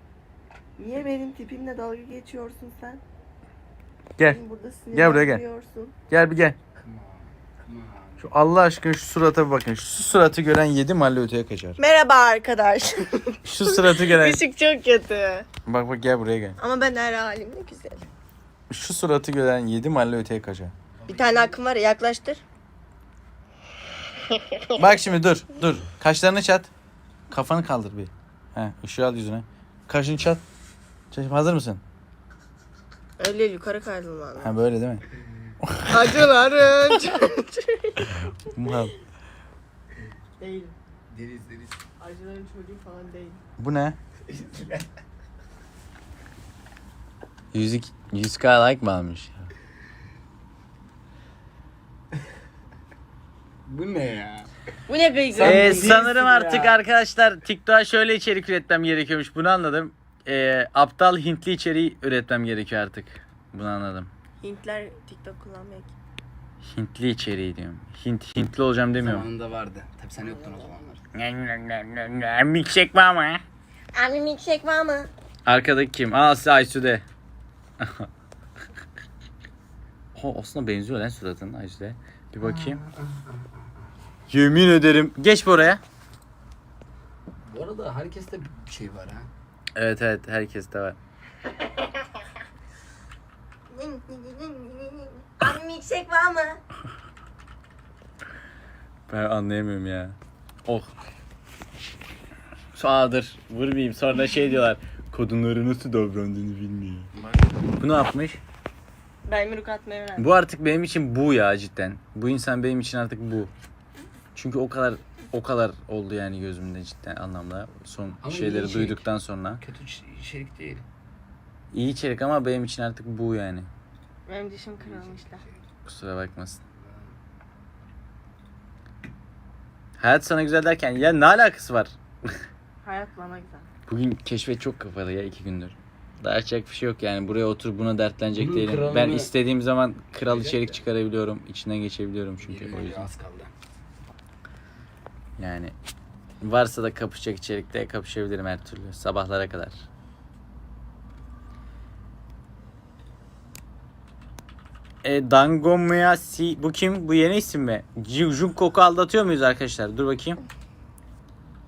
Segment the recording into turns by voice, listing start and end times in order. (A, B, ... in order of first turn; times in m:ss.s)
0:00.8-0:03.0 A
0:04.2-0:05.9 A
0:04.9-0:05.4 B
0:06.1-0:06.6 B
0:06.8-0:08.2 C
0:08.2-0:11.8 B
0:11.8-0:15.5 A
0:13.4-0:14.4 B
0:15.7-0:16.6 B
0:16.6-0:18.1 A
0:18.7-0:20.7 B
0:21.0-0:21.6 C
0:21.1-0:22.4 A
0:24.7-0:26.7 B
0:27.3-0:30.4 B
0:31.1-0:31.8 B
0:33.2-0:34.6 A
0:34.4-0:35.0 B
0:35.6-0:36.3 B
0:35.9-0:38.1 A
0:38.0-0:39.0 B
0:40.4-0:40.8 A
0:41.1-0:41.8 C
0:42.0-0:43.4 A
0:43.6-0:44.0 B
0:44.3-0:44.8 C
0:47.5-0:49.5 B
0:53.7-0:54.5 C
0:54.9-0:56.0 A
0:55.3-0:56.8 C
0:55.4-1:04.1 B
1:04.4-1:05.9 A
1:06.6-1:09.3 B
1:09.0-1:11.0 C
1:11.2-1:13.4 B
1:13.9-1:15.1 A
1:15.5-1:17.0 B
1:17.8-1:18.1 B
1:20.2-1:22.8 B
1:22.4-1:23.5 C
1:24.3-1:25.8 B
1:27.5-1:29.3 C
1:29.8-1:31.0 B
1:33.7-1:36.6 A
1:39.1-1:40.9 B
1:42.8-1:47.1 B
1:47.8-1:48.4 B
1:49.3-1:50.3 A
1:50.2-1:53.5 B
1:54.4-1:59.6 B
1:58.2-1:59.0 C
1:59.6-2:00.8 C
2:01.7-2:03.7 B
2:04.3-2:05.4 A
2:04.8-2:05.6 C
2:05.9-2:06.6 B
2:06.8-2:07.1 C
2:10.0-2:12.0 B
2:12.8-2:13.7 A
2:13.9-2:23.1 B
2:18.3-2:19.3 C
2:20.2-2:20.8 C
2:22.4-2:23.5 C
2:25.4-2:25.7 B
2:26.4-2:29.8 B
2:35.0-2:40.4 B